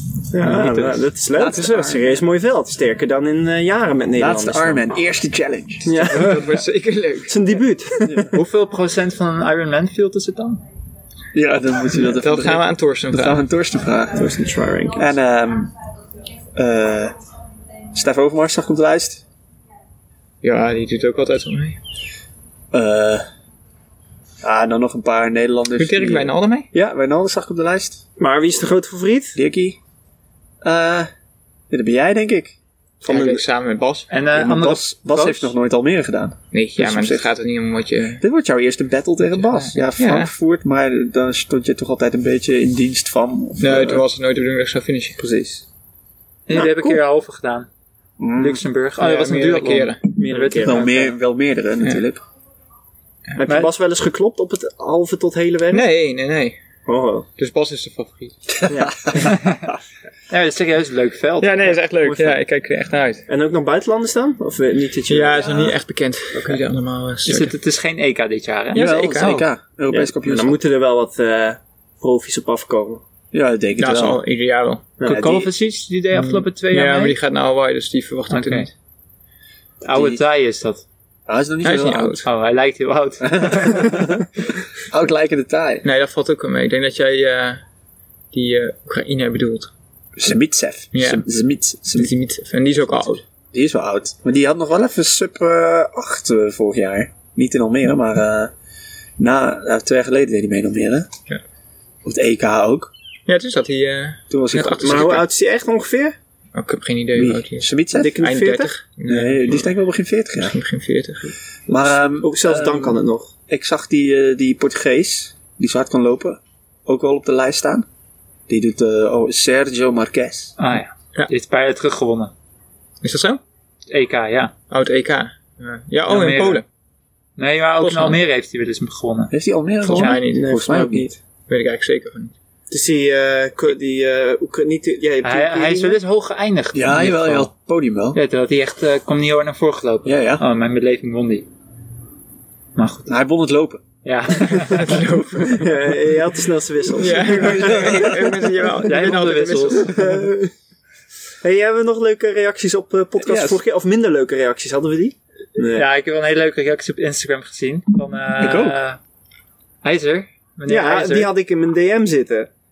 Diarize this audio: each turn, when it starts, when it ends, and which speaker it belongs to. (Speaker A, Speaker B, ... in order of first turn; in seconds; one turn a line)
Speaker A: 0.3-4.8
Speaker B: 0.4-1.0
Speaker C: 0.4-2.2
Speaker C: 4.2-5.9
Speaker A: 5.8-6.5
Speaker D: 6.1-7.5
Speaker A: 7.3-8.3
Speaker C: 8.0-8.4
Speaker B: 8.3-10.6
Speaker C: 11.3-14.3
Speaker D: 11.9-13.4
Speaker A: 14.1-15.1
Speaker C: 15.0-15.7
Speaker C: 16.6-17.1
Speaker C: 17.9-19.2
Speaker D: 20.4-21.8
Speaker C: 22.7-23.2
Speaker C: 24.4-28.0
Speaker D: 25.8-26.7
Speaker A: 28.2-29.4
Speaker C: 29.4-29.8
Speaker C: 30.6-31.1
Speaker C: 31.7-33.4
Speaker D: 33.0-34.1
Speaker B: 34.1-35.5
Speaker C: 34.3-37.3
Speaker D: 36.5-38.2
Speaker C: 38.2-44.0
Speaker D: 39.5-40.3
Speaker D: 43.6-45.2
Speaker C: 45.2-45.6
Speaker B: 46.5-47.7
Speaker A: 46.5-47.0
Speaker C: 48.2-48.6
Speaker B: 48.4-51.1
Speaker D: 49.0-50.0
Speaker A: 50.1-51.0
Speaker C: 50.6-52.2
Speaker A: 53.4-55.9
Speaker D: 55.7-56.6
Speaker A: 56.9-57.3
Speaker D: 57.4-58.4
Speaker C: 58.5-59.8
Speaker A: 58.7-59.3
Speaker B: 59.2-59.7
Speaker B: 60.3-62.3
Speaker D: 61.4-63.2
Speaker A: 63.3-65.6
Speaker D: 65.1-67.5
Speaker B: 67.2-69.4
Speaker D: 68.7-69.5
Speaker C: 68.7-70.6
Speaker A: 69.9-73.0
Speaker C: 73.3-74.2
Speaker D: 73.8-74.9
Speaker A: 75.0-75.4
Speaker C: 75.1-75.5
Speaker B: 75.1-77.2
Speaker D: 76.1-78.7
Speaker B: 78.3-78.7
Speaker B: 79.8-80.8
Speaker C: 79.9-80.2
Speaker C: 81.3-82.3
Speaker D: 81.6-82.3
Speaker B: 82.2-84.0
Speaker C: 83.2-85.8
Speaker D: 85.8-87.6
Speaker D: 88.3-89.7
Speaker C: 90.2-92.1
Speaker D: 90.9-91.2
Speaker D: 91.9-93.2
Speaker C: 93.5-98.5
Speaker C: 99.2-101.1
Speaker C: 102.0-102.9
Speaker D: 103.3-105.3
Speaker C: 104.3-105.3
Speaker A: 104.8-106.1
Speaker D: 106.5-109.7
Speaker C: 107.2-108.2
Speaker A: 107.9-108.7
Speaker C: 109.1-110.5
Speaker D: 110.4-111.4
Speaker C: 111.7-113.0
Speaker A: 112.2-113.3
Speaker C: 113.5-117.9
Speaker C: 118.5-120.6
Speaker B: 120.6-122.3
Speaker D: 123.0-123.4
Speaker B: 123.9-124.5
Speaker D: 124.7-126.6
Speaker B: 126.1-126.6
Speaker B: 127.4-129.3
Speaker D: 127.8-128.2
Speaker C: 129.3-131.1
Speaker D: 129.8-132.3
Speaker A: 130.3-130.8
Speaker A: 132.7-136.0
Speaker B: 135.2-137.5
Speaker C: 136.7-138.2
Speaker B: 138.1-141.5
Speaker C: 140.1-140.4
Speaker B: 142.8-143.2
Speaker C: 143.1-143.8
Speaker B: 144.0-144.9
Speaker D: 144.3-145.7
Speaker A: 145.5-148.2
Speaker D: 146.9-150.2
Speaker C: 147.2-148.4
Speaker B: 148.8-150.1
Speaker A: 149.9-150.5
Speaker A: 151.4-155.9
Speaker C: 153.2-153.6
Speaker B: 155.7-159.0
Speaker C: 158.4-158.8
Speaker B: 159.8-161.3
Speaker A: 160.7-162.5